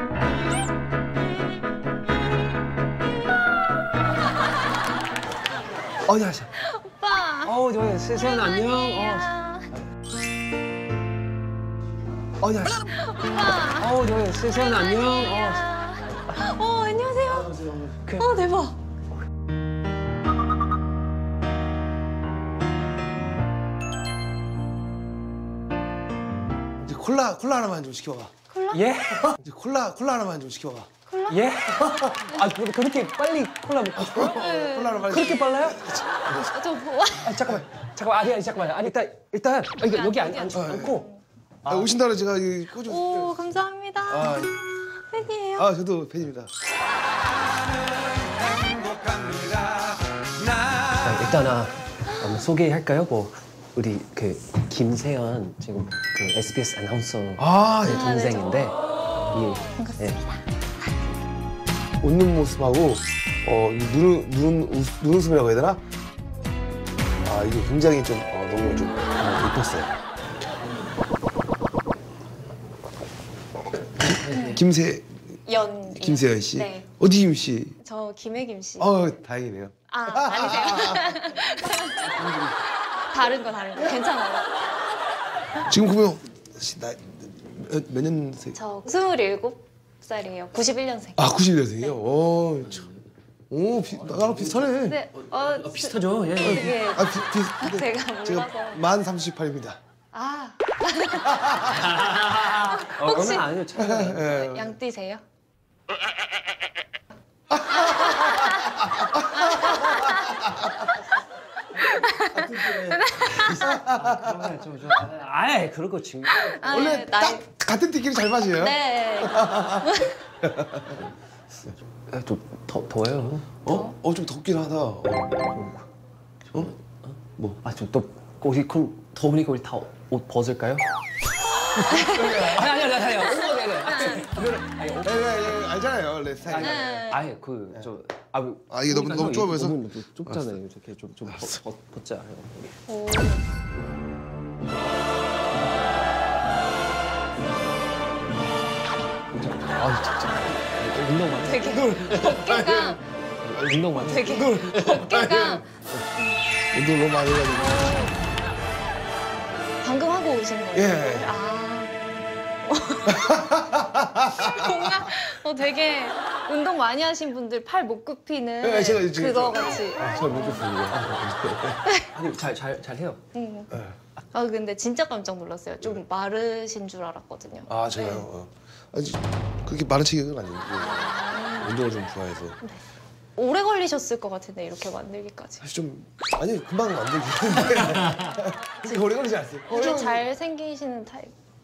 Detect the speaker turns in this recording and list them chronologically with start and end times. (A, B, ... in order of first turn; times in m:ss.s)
0:06.1-0:06.5 A
0:06.6-0:07.6 B
0:07.4-0:09.3 A
0:08.1-0:09.7 B
0:12.4-0:13.0 A
0:12.8-0:18.8 B
0:13.7-0:16.2 A
0:17.3-0:17.9 C
0:18.0-0:18.3 A
0:26.8-0:28.3 C
0:28.5-0:28.8 B
0:28.7-0:29.4 A
0:29.2-0:30.9 C
0:31.1-0:31.5 B
0:31.3-0:34.4 A
0:31.8-0:32.1 C
0:34.0-0:36.6 C
0:34.0-0:35.3 B
0:35.0-0:36.5 A
0:36.5-0:37.4 B
0:37.2-0:41.1 A
0:37.4-0:37.6 C
0:39.8-0:41.2 B
0:40.5-0:41.0 C
0:41.6-0:41.9 A
0:41.7-0:43.4 C
0:42.8-0:45.7 B
0:44.1-0:44.6 C
0:45.6-0:46.5 C
0:48.4-0:51.0 C
0:51.0-0:58.8 A
0:57.4-0:58.2 C
0:57.8-0:58.8 B
0:59.3-1:00.2 A
0:59.8-1:00.4 B
1:02.0-1:05.8 C
1:07.2-1:10.0 C
1:14.0-1:15.4 C
1:14.3-1:14.6 B
1:15.5-1:16.9 B
1:15.9-1:17.8 C
1:17.8-1:19.0 B
1:18.8-1:21.2 C
1:19.9-1:22.2 B
1:22.0-1:22.6 C
1:23.1-1:24.5 B
1:25.6-1:28.6 C
1:28.6-1:31.3 B
1:31.2-1:32.9 C
1:33.5-1:35.0 C
1:34.1-1:34.6 A
1:34.7-1:38.8 B
1:35.3-1:36.9 A
1:36.4-1:39.8 C
1:40.1-1:43.6 B
1:41.3-1:41.9 C
1:42.0-1:44.4 A
1:43.8-1:44.7 C
1:44.2-1:45.2 B
1:47.5-1:50.7 C
1:47.7-1:50.5 B
1:51.7-1:53.8 B
1:52.3-1:54.6 C
1:53.7-1:56.6 A
1:56.3-1:57.4 B
1:56.6-1:59.9 C
1:58.5-2:00.3 B
2:00.4-2:01.1 C
2:02.1-2:03.6 A
2:03.6-2:05.4 C
2:05.5-2:05.8 A
2:06.5-2:10.8 A
2:11.7-2:15.4 A
2:11.8-2:14.5 B
2:12.0-2:12.7 C
2:15.0-2:17.1 C
2:16.5-2:22.8 A
2:16.6-2:17.3 B
2:18.7-2:20.4 C
2:22.9-2:23.4 B
2:29.5-2:33.0 C
2:30.8-2:32.4 A
2:31.4-2:33.0 B
2:33.4-2:34.5 A
2:33.5-2:35.7 C
2:33.9-2:36.4 B
2:36.7-2:38.1 C
2:37.6-2:38.1 B
2:39.8-2:41.9 B
2:40.7-2:41.4 C
2:42.6-2:50.7 B
2:43.1-2:45.1 C
2:48.6-2:51.8 C
2:50.9-2:53.2 A
2:53.3-2:53.7 B
2:54.3-2:58.3 B
2:57.7-3:02.6 C
3:00.7-3:01.8 B
3:03.4-3:05.6 B
3:05.6-3:10.3 C
3:09.7-3:11.3 B